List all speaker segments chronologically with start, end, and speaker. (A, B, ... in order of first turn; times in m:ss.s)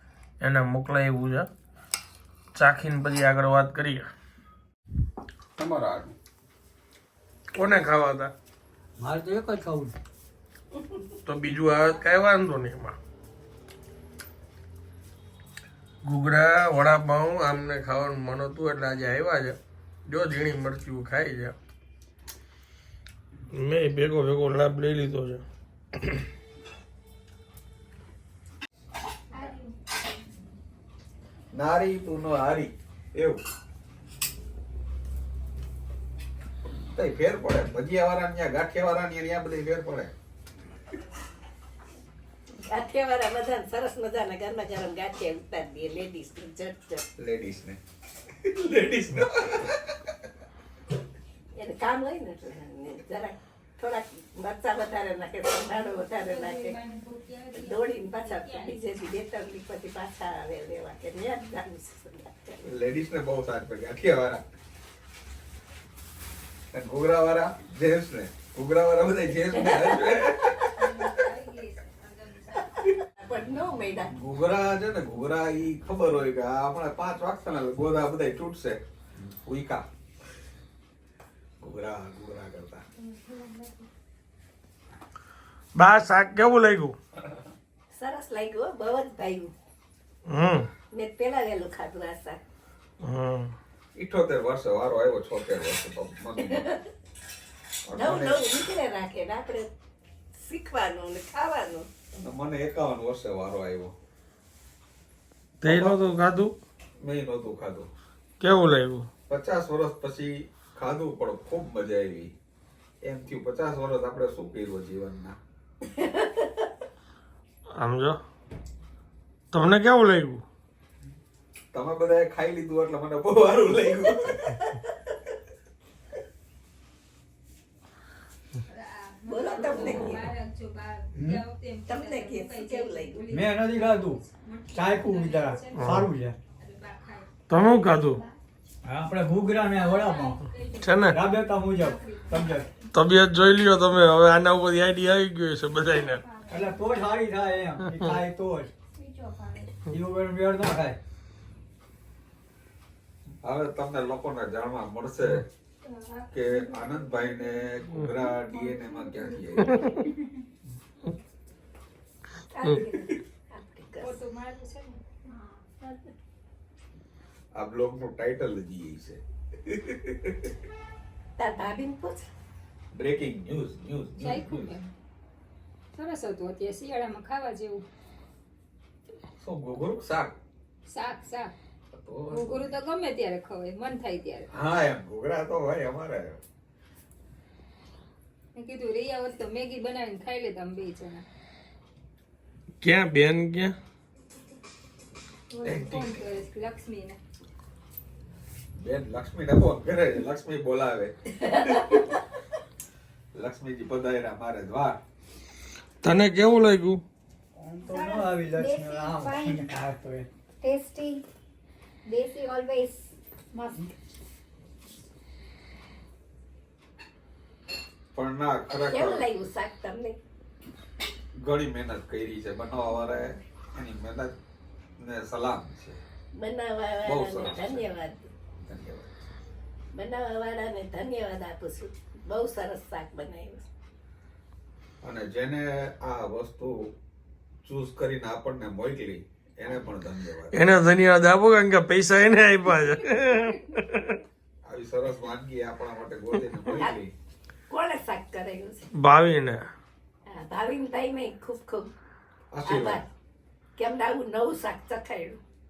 0:00.4-0:01.5 A
0:02.5-0:04.1 A
0:05.6-0:06.1 B
0:07.5-0:08.3 A
0:09.0-0:09.9 B
0:11.2-0:13.0 A
0:16.0-0:21.6 A
0:23.5-0:25.4 A
0:31.5-0:33.4 C
0:36.6-0:40.1 C
0:42.7-0:47.0 D
0:47.2-0:47.8 C
0:48.4-0:50.1 C
0:51.6-0:56.8 D
0:56.0-0:58.8 E
0:57.5-1:02.6 D
1:02.6-1:04.4 C
1:06.7-1:10.9 C
1:09.5-1:10.2 D
1:10.8-1:13.0 E
1:13.2-1:14.1 D
1:14.1-1:19.8 C
1:21.6-1:22.8 C
1:25.7-1:26.9 A
1:27.9-1:29.5 D
1:30.3-1:30.7 A
1:30.9-1:32.4 D
1:33.0-1:33.5 A
1:33.9-1:36.7 C
1:36.5-1:36.8 D
1:37.9-1:38.4 C
1:37.9-1:39.7 D
1:40.4-1:41.9 D
1:42.2-1:43.9 C
1:45.6-1:46.5 A
1:45.6-1:46.0 C
1:47.0-1:47.9 C
1:48.4-1:49.1 A
1:49.3-1:52.3 C
1:53.0-1:55.4 C
1:56.0-1:56.4 D
1:57.8-1:58.2 A
1:59.5-2:00.4 A
2:01.7-2:04.7 C
2:08.7-2:16.0 E
2:09.3-2:10.3 D
2:11.2-2:11.4 B
2:11.9-2:13.2 D
2:13.3-2:14.2 B
2:14.7-2:16.4 B
2:15.8-2:16.1 A
2:16.6-2:17.3 E
2:17.5-2:18.2 A
2:18.8-2:20.4 B
2:19.7-2:22.6 E
2:20.8-2:21.2 A
2:21.1-2:22.7 B
2:22.9-2:26.2 A
2:26.5-2:28.7 B
2:28.9-2:29.7 F
2:29.9-2:31.0 B
2:33.4-2:35.4 C
2:36.3-2:40.0 C
2:42.5-2:44.2 D
2:44.0-2:45.0 E
2:45.8-2:46.1 D
2:47.5-2:50.5 C
2:51.4-2:52.2 D
2:52.9-2:54.7 C
2:54.2-2:54.9 E
2:55.9-2:57.8 E
2:59.4-3:00.4 C
3:00.9-3:01.5 E
3:01.9-3:02.7 C
3:02.3-3:04.5 E
3:04.5-3:06.4 C
3:08.5-3:11.2 E
3:12.8-3:13.7 A
3:15.5-3:17.2 E
3:15.6-3:16.2 C
3:18.8-3:22.0 C
3:21.5-3:22.0 D
3:23.3-3:25.0 C
3:26.0-3:27.0 A
3:27.6-3:30.3 B
3:27.8-3:29.6 F
3:30.6-3:31.2 F
3:32.1-3:33.8 F
3:38.1-3:39.3 C
3:38.8-3:40.2 D
3:41.4-3:44.3 C
3:45.0-3:46.0 C
3:46.3-3:48.3 D
3:47.0-3:47.8 C
3:48.6-3:49.2 C
3:49.9-3:53.6 D
3:55.0-3:56.9 C
3:57.6-4:00.6 C
4:00.5-4:04.2 A
4:04.6-4:07.1 C
4:07.7-4:08.9 D
4:08.9-4:09.6 A
4:10.3-4:11.9 D
4:12.5-4:13.0 C
4:12.6-4:13.0 D
4:13.8-4:15.4 D